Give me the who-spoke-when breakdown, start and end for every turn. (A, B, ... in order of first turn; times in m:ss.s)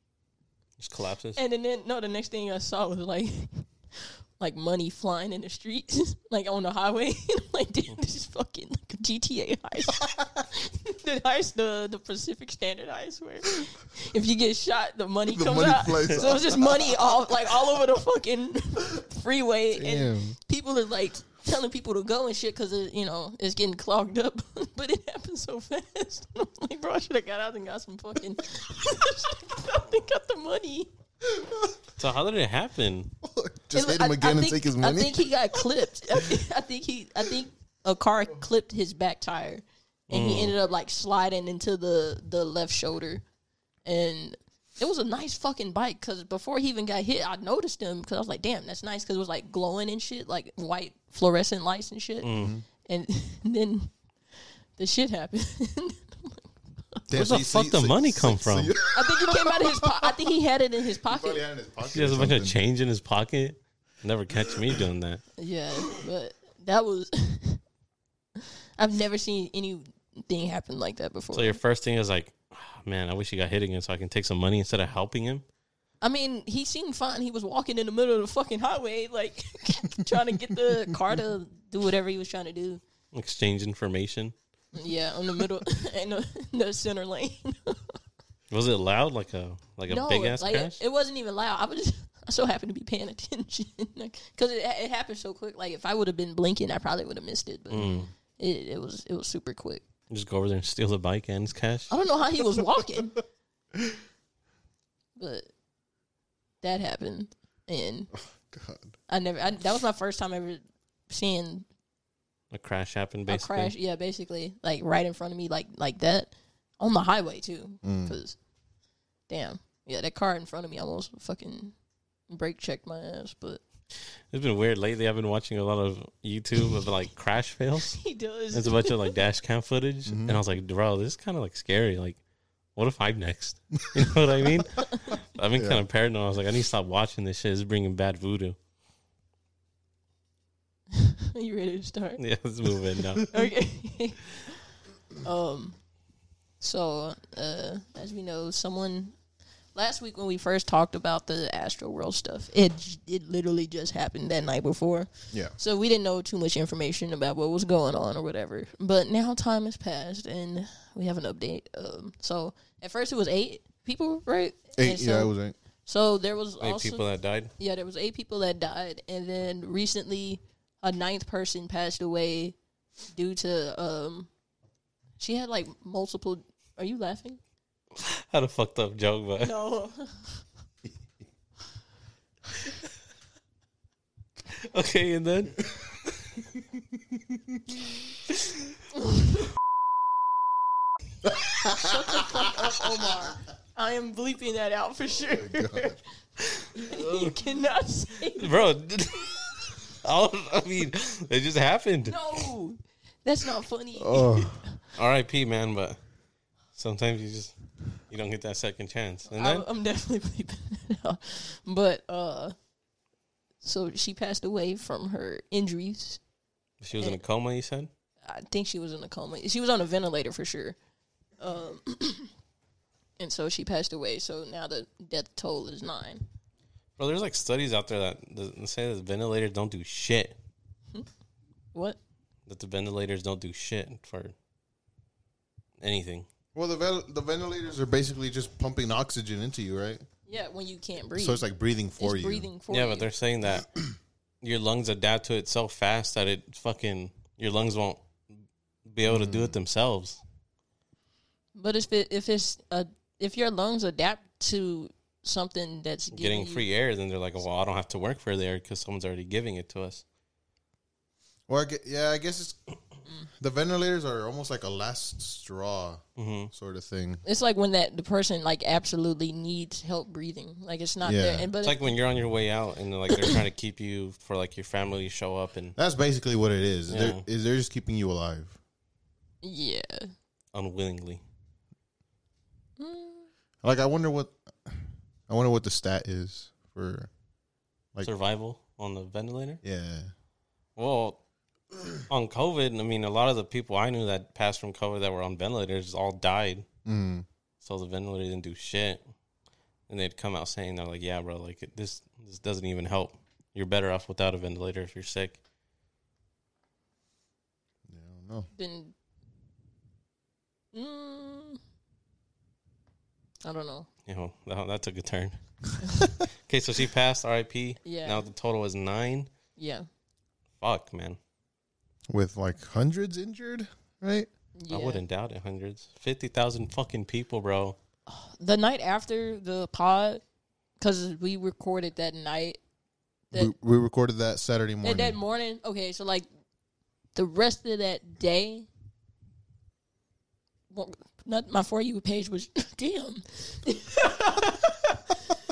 0:00.8-0:01.4 A
0:01.4-0:30.9 B
0:15.3-0:17.0 C
0:19.8-0:20.4 C
0:31.2-0:31.7 C
0:32.0-0:33.1 A
0:33.2-0:35.7 C
0:33.7-0:43.2 B
0:40.1-0:40.6 A
0:43.8-0:52.3 B
0:52.2-0:52.6 A
0:52.4-0:52.6 C
0:52.9-0:53.9 B
0:54.8-0:56.4 B
0:57.1-1:00.2 C
0:57.1-0:58.7 A
0:58.9-1:01.4 B
1:01.0-1:02.6 C
1:01.9-1:05.2 A
1:05.4-1:07.6 B
1:08.4-1:11.6 B
1:11.3-1:15.4 A
1:16.0-1:22.8 B
1:23.1-1:24.3 A
1:24.8-1:28.0 B
1:28.5-1:30.8 A
1:29.9-1:39.8 B
1:37.7-1:38.1 A
1:40.1-1:41.9 A
1:41.9-1:43.2 B
1:45.2-1:45.5 B
1:46.6-1:48.1 B
1:48.2-1:48.9 C
1:49.1-1:51.7 B
1:52.5-1:53.7 A
1:53.3-1:58.4 B
1:57.8-1:58.2 C
1:59.3-2:01.7 B
2:02.3-2:03.6 B
2:04.3-2:08.0 A
2:07.9-2:09.2 B
2:08.5-2:12.2 A
2:10.1-2:10.4 C
2:12.8-2:18.6 A
2:15.6-2:15.8 C
2:20.9-2:22.2 B
2:22.2-2:23.3 A
2:23.3-2:24.5 B
2:25.2-2:25.8 B
2:26.6-2:29.2 B
2:29.8-2:45.3 B
2:44.8-2:45.6 C
2:45.9-2:47.0 B
2:46.6-2:47.5 A
2:47.6-2:52.6 B
2:53.1-2:54.3 B
2:55.2-2:57.4 B
2:58.0-2:59.6 A
2:59.4-3:00.4 B
3:04.6-3:05.6 A
3:07.1-3:07.6 C
3:11.5-3:11.8 C
3:11.7-3:16.0 B
3:15.3-3:16.0 C
3:16.8-3:17.3 A
3:16.9-3:18.6 B
3:18.4-3:22.4 A
3:22.1-3:24.6 B
3:24.0-3:24.6 C
3:25.0-3:26.0 A
3:26.7-3:27.6 A
3:28.1-3:29.6 A
3:29.3-3:32.6 B
3:33.6-3:36.2 B
3:36.8-3:37.9 A
3:38.2-3:40.8 B
3:41.4-3:42.3 B
3:43.2-3:46.2 B
3:47.0-3:50.4 A
3:52.5-3:54.3 A
3:55.8-3:56.3 A
3:56.6-4:00.0 C
4:00.3-4:01.5 B
4:01.2-4:02.5 C
4:02.0-4:03.1 B
4:02.7-4:03.7 A
4:04.4-4:08.0 A
4:08.9-4:10.2 A
4:09.1-4:09.6 C
4:11.6-4:16.6 B
4:16.1-4:20.0 A
4:21.5-4:22.6 C
4:23.4-4:27.2 C
4:26.2-4:26.5 A
4:27.2-4:31.9 B
4:31.0-4:31.5 C
4:31.6-4:35.8 A
4:35.8-4:38.6 C
4:36.9-4:37.2 A
4:39.4-4:40.1 B
4:40.5-4:41.2 A
4:42.8-4:43.3 B
4:43.6-4:47.1 C
4:48.0-4:49.6 A
4:49.6-4:50.1 C
4:50.8-4:51.2 A
4:52.1-4:56.7 A
4:56.8-4:57.3 C
4:57.6-4:59.0 A
4:59.9-5:05.4 A
5:07.9-5:08.5 C
5:08.6-5:08.9 B
5:10.7-5:11.6 B
5:13.4-5:13.9 B
5:14.1-5:15.4 A
5:16.0-5:19.3 A
5:17.8-5:18.2 B
5:19.6-5:19.9 B
5:20.6-5:21.2 A
5:22.1-5:24.3 C
5:24.6-5:25.0 B
5:24.7-5:27.8 A
5:28.1-5:30.2 B
5:30.8-5:32.6 B
5:33.3-5:35.2 C
5:34.8-5:36.3 B
5:37.2-5:38.7 B
5:40.7-5:45.1 B